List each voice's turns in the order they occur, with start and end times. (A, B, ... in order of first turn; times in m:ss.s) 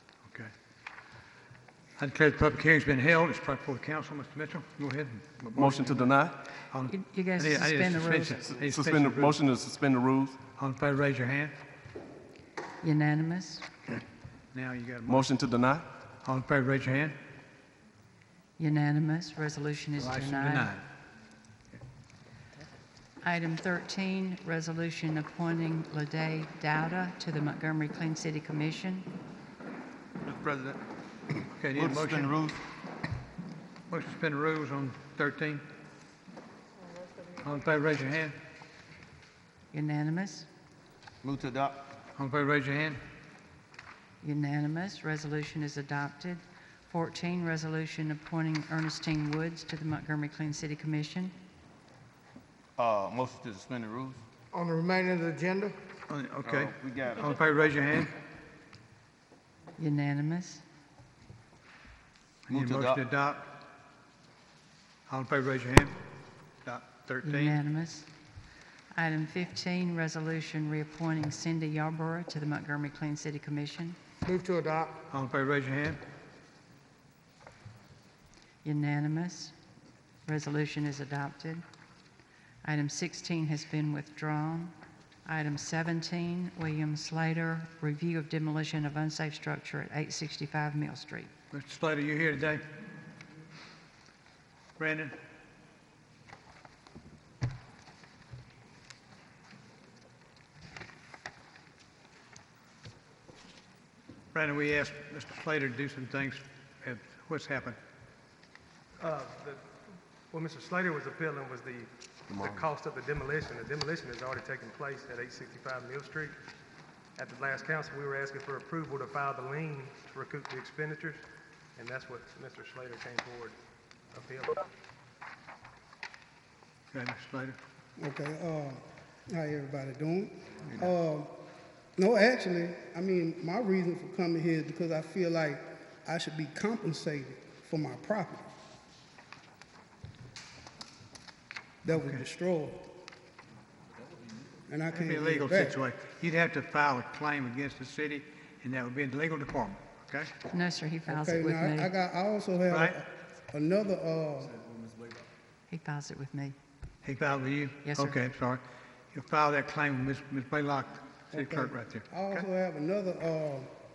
0:00.3-0:00.5 A
0:02.0-0:06.2 A
0:05.5-0:06.4 B
0:06.7-0:09.4 A
0:06.9-0:08.5 C
0:08.6-0:10.4 B
0:10.6-0:11.6 A
0:12.8-0:13.7 C
0:14.5-0:15.3 A
0:15.1-0:15.9 B
0:16.2-0:17.2 A
0:18.6-0:20.7 C
0:20.0-0:20.8 A
0:23.2-0:29.1 C
0:30.2-0:30.8 D
0:31.5-0:32.4 A
0:31.7-0:32.6 D
0:33.9-0:35.6 A
0:36.9-0:37.6 E
0:37.4-0:38.4 A
0:39.7-0:40.5 C
0:41.2-0:41.9 D
0:42.2-0:43.0 A
0:44.2-0:51.3 C
0:52.8-0:54.2 D
0:54.5-0:55.8 E
0:56.1-0:58.1 A
0:56.4-0:57.3 D
0:59.8-1:00.6 C
1:02.5-1:03.5 A
1:02.5-1:03.0 D
1:05.1-1:06.0 A
1:06.6-1:07.6 A
1:07.2-1:08.1 C
1:09.0-1:14.0 C
1:14.2-1:15.0 E
1:15.1-1:16.0 A
1:18.6-1:19.5 C
1:20.2-1:21.6 C
1:22.6-1:24.7 C
1:25.3-1:31.3 C
1:31.5-1:32.6 A
1:34.8-1:35.1 A
1:44.3-1:47.8 A
1:49.0-1:49.6 F
1:50.3-1:56.4 F
1:52.3-1:52.7 B
1:57.2-2:01.2 F
2:01.8-2:03.6 F
2:04.1-2:04.7 F
2:06.9-2:07.6 A
2:08.0-2:11.3 G
2:12.0-2:18.5 G
2:21.8-2:22.9 G
2:21.9-2:22.2 A
2:24.7-2:25.8 G
2:24.9-2:30.3 A
2:30.5-2:31.9 C
2:31.1-2:34.6 G
2:32.7-2:33.0 A
2:35.7-2:36.6 C
2:37.0-2:38.6 A
2:37.8-2:38.2 C
2:39.1-2:42.4 A
2:41.3-2:43.7 G